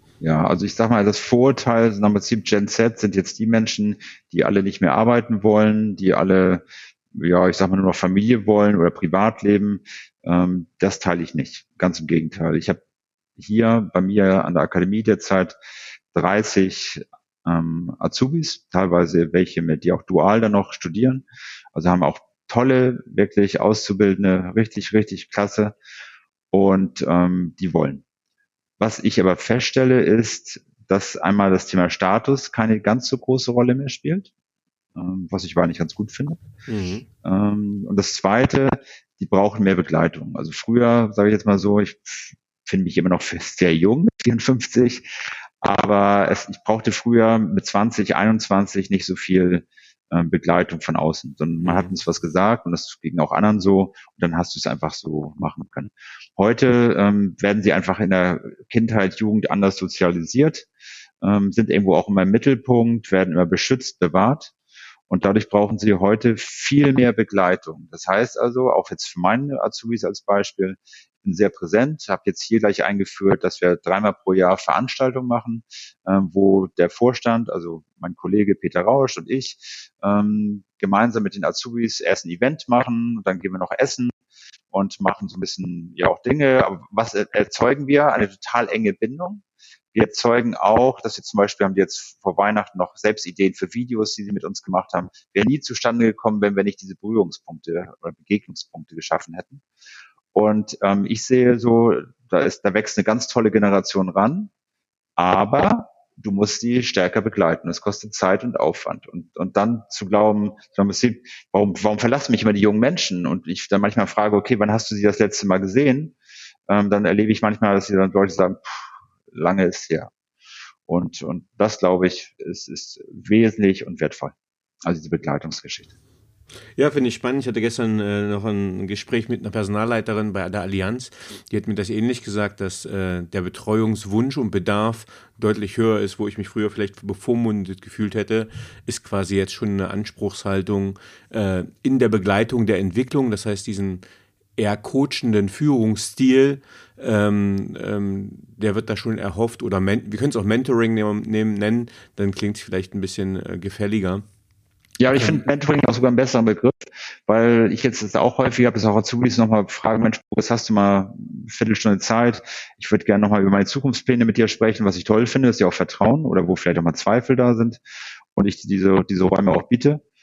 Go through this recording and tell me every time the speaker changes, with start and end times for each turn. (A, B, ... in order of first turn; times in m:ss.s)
0:00.2-0:12.8 A
0:13.4-0:15.6 A
0:16.1-0:25.7 A
0:26.5-0:28.0 A
0:28.8-0:34.3 A
0:35.0-0:36.4 A
0:36.7-0:37.1 B
0:37.2-0:45.1 A
0:45.6-1:00.7 A
0:51.6-0:51.9 B
1:01.2-1:04.5 A
1:05.1-1:24.1 A
1:24.7-1:29.4 A
1:29.9-1:39.6 A
1:40.3-1:44.5 A
1:45.2-1:56.1 A
1:56.7-2:00.1 A
2:00.9-2:04.4 A
2:04.9-2:05.9 A
2:06.8-2:24.0 B
2:24.6-2:34.2 B
2:35.0-2:47.8 A
2:48.4-2:50.0 A